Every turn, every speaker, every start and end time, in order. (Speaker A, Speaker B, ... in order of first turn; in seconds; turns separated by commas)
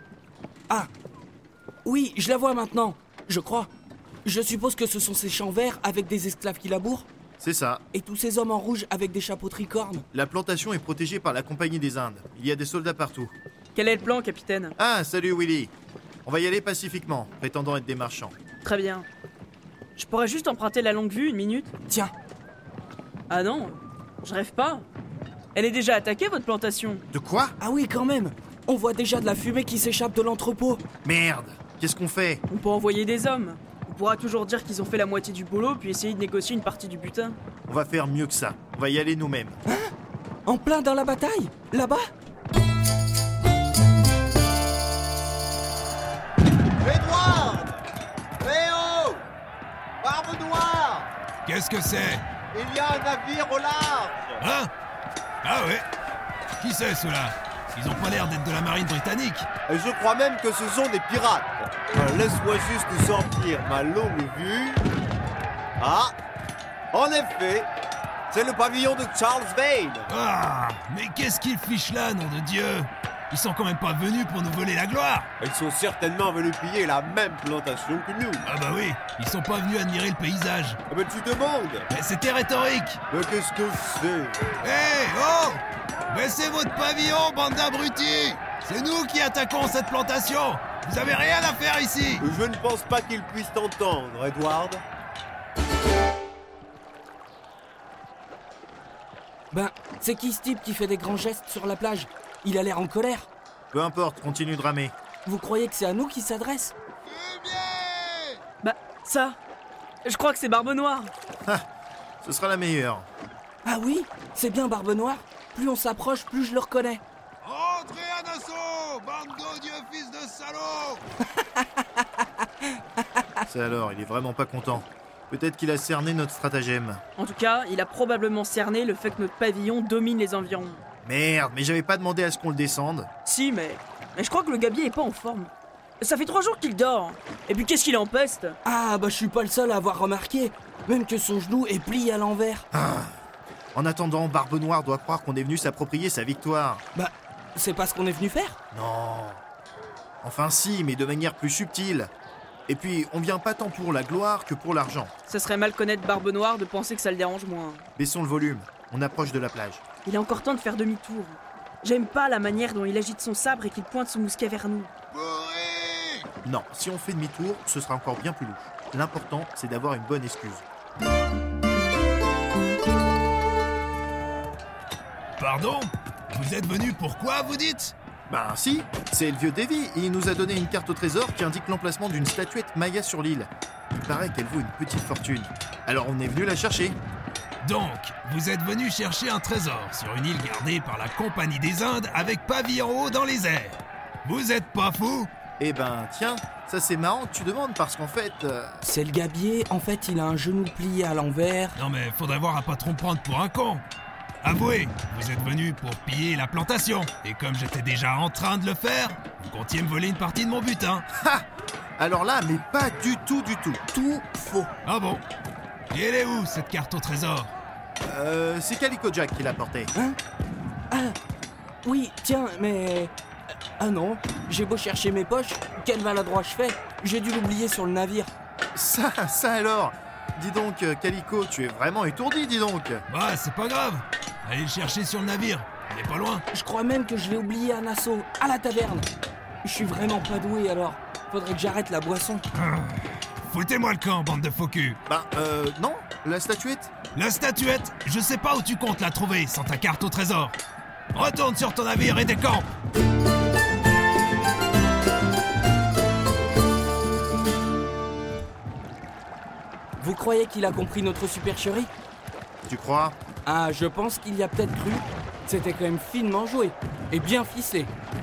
Speaker A: 1.9-3.7, Speaker A: 4.2-7.1, Speaker B: 7.4-7.8, Speaker A: 7.9-10.1, Speaker B: 10.1-13.3, Speaker C: 13.8-14.8, Speaker B: 14.8-15.7, Speaker B: 16.2-18.4, Speaker C: 18.6-19.1, Speaker C: 20.0-21.7, Speaker C: 23.3-24.9, Speaker C: 25.6-27.1, Speaker B: 27.1-27.6, Speaker A: 27.6-30.8, Speaker B: 31.0-32.4, Speaker C: 32.5-37.4, Speaker B: 37.7-39.6, Speaker A: 40.5-42.1, Speaker D: 46.8-47.8, Speaker D: 48.4-49.2, Speaker D: 50.0-51.1, Speaker E: 51.5-52.2, Speaker D: 52.5-54.4, Speaker E: 54.4-54.7, Speaker E: 55.4-55.9, Speaker E: 56.6-59.5, Speaker D: 59.7-64.8, Speaker D: 65.8-66.2, Speaker D: 66.9-67.7, Speaker D: 68.3-70.1, Speaker E: 70.1-75.3, Speaker D: 75.4-78.4, Speaker E: 78.4-80.8, Speaker D: 80.9-81.9, Speaker E: 81.9-83.0, Speaker D: 83.1-84.5, Speaker E: 84.6-92.3, Speaker D: 92.2-94.8, Speaker A: 99.5-103.3, Speaker B: 103.7-104.9, Speaker A: 105.2-106.7, Speaker E: 107.1-108.4, Speaker C: 108.6-109.4, Speaker C: 110.0-111.1, Speaker B: 112.2-113.1, Speaker A: 113.7-117.0, Speaker E: 117.4-121.0, Speaker A: 121.4-122.2, Speaker B: 123.5-127.0, Speaker C: 127.2-130.8, Speaker B: 131.0-133.1, Speaker C: 133.2-138.6, Speaker A: 138.7-142.7, Speaker B: 142.7-143.2, Speaker B: 143.7-146.8, Speaker A: 146.9-148.6, Speaker B: 148.7-149.4, Speaker B: 150.2-152.1, Speaker B: 152.7-155.1, Speaker C: 155.3-157.8, Speaker B: 158.0-159.8, Speaker C: 160.0-164.9, Speaker E: 165.1-166.3, Speaker B: 166.4-170.6, Speaker E: 175.4-177.9, Speaker B: 178.3-187.0, Speaker E: 187.6-195.3, Speaker B: 195.6-198.8, Speaker A: 198.8-201.8, Speaker E: 201.8-203.8, Speaker E: 204.4-211.1, Speaker B: 211.1-211.4, Speaker B: 212.0-213.8, Speaker A: 213.9-214.7, Speaker E: 214.9-215.2, Speaker E: 215.9-217.5, Speaker B: 218.0-219.9, Speaker A: 220.9-221.2, Speaker A: 221.8-223.1, Speaker A: 223.8-228.3, Speaker B: 228.8-233.0, Speaker E: 233.1-236.4, Speaker A: 236.5-239.1, Speaker A: 239.6-242.4, Speaker E: 242.6-245.0, Speaker B: 245.1-246.9, Speaker E: 247.1-250.6, Speaker E: 251.1-252.7, Speaker A: 260.0-261.9, Speaker B: 262.7-263.2, Speaker A: 263.4-267.9